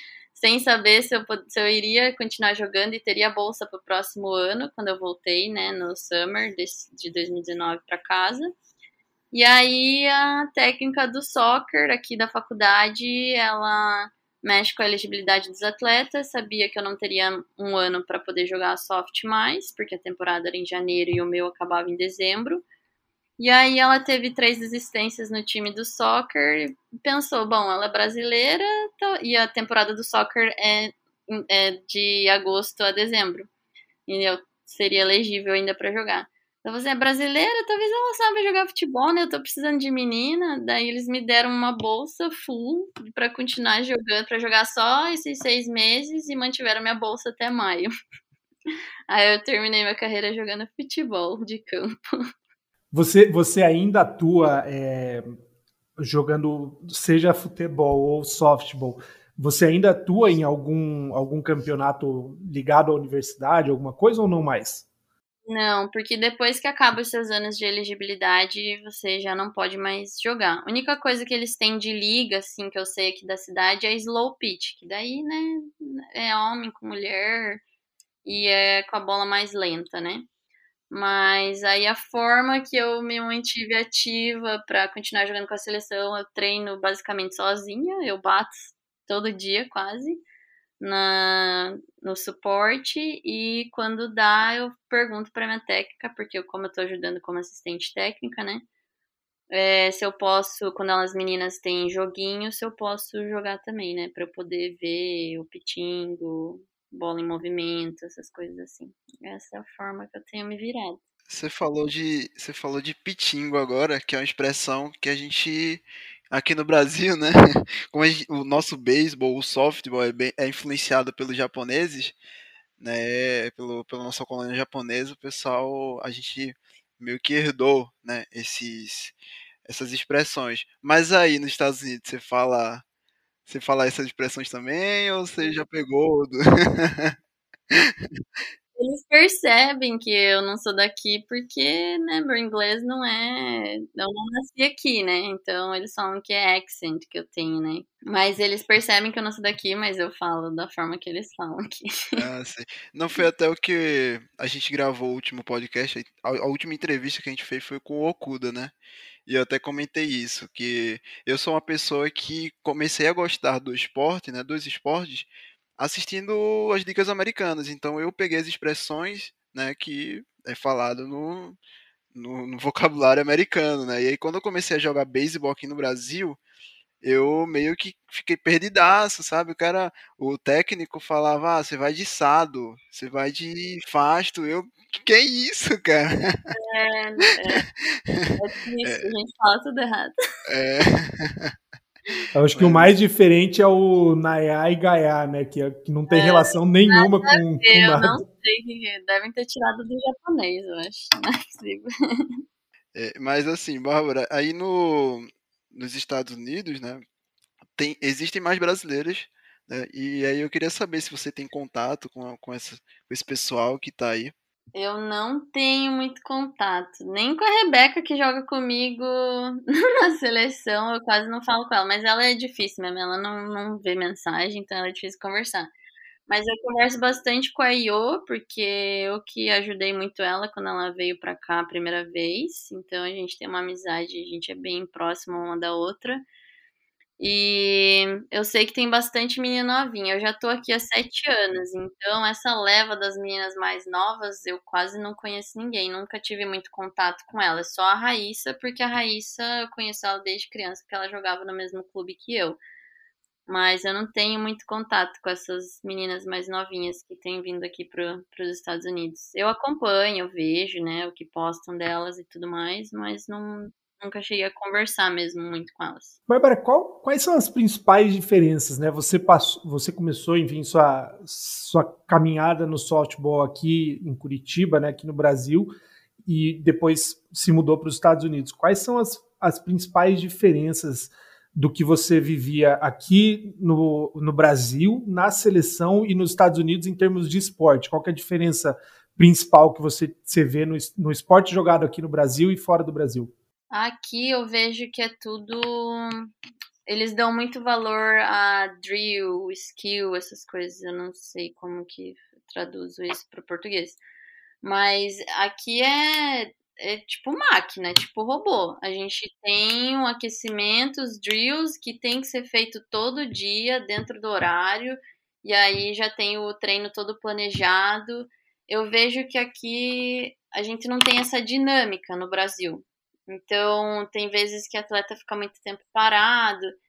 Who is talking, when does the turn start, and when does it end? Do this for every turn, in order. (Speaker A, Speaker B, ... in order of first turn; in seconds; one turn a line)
Speaker A: 0.3-8.5
Speaker A: 9.3-22.6
Speaker A: 23.4-33.5
Speaker A: 34.1-47.9
Speaker A: 49.1-52.2
Speaker B: 52.9-55.3
Speaker B: 56.0-64.9
Speaker A: 65.5-77.6
Speaker A: 78.2-80.3
Speaker A: 80.9-90.2
Speaker A: 90.8-98.7
Speaker A: 99.5-111.0
Speaker C: 111.3-122.2
Speaker C: 122.8-129.2
Speaker C: 129.7-132.8
Speaker C: 133.5-137.2
Speaker C: 137.7-138.2
Speaker A: 138.8-152.2
Speaker C: 152.2-158.7
Speaker C: 159.3-171.6
Speaker C: 172.1-176.4
Speaker C: 177.0-186.5
Speaker A: 186.5-187.7
Speaker C: 188.1-188.3
Speaker A: 188.3-190.1
Speaker C: 188.8-189.1
Speaker C: 190.5-191.5
Speaker B: 192.3-198.2
Speaker C: 192.6-192.9
Speaker A: 196.1-202.2
Speaker C: 202.9-207.0
Speaker C: 207.8-214.3
Speaker A: 214.7-225.7
Speaker A: 226.3-236.2
Speaker A: 237.2-252.6
Speaker A: 253.5-266.2
Speaker B: 266.3-275.7
Speaker B: 276.3-293.3
Speaker A: 293.7-296.3
Speaker A: 296.9-304.0
Speaker A: 304.6-326.8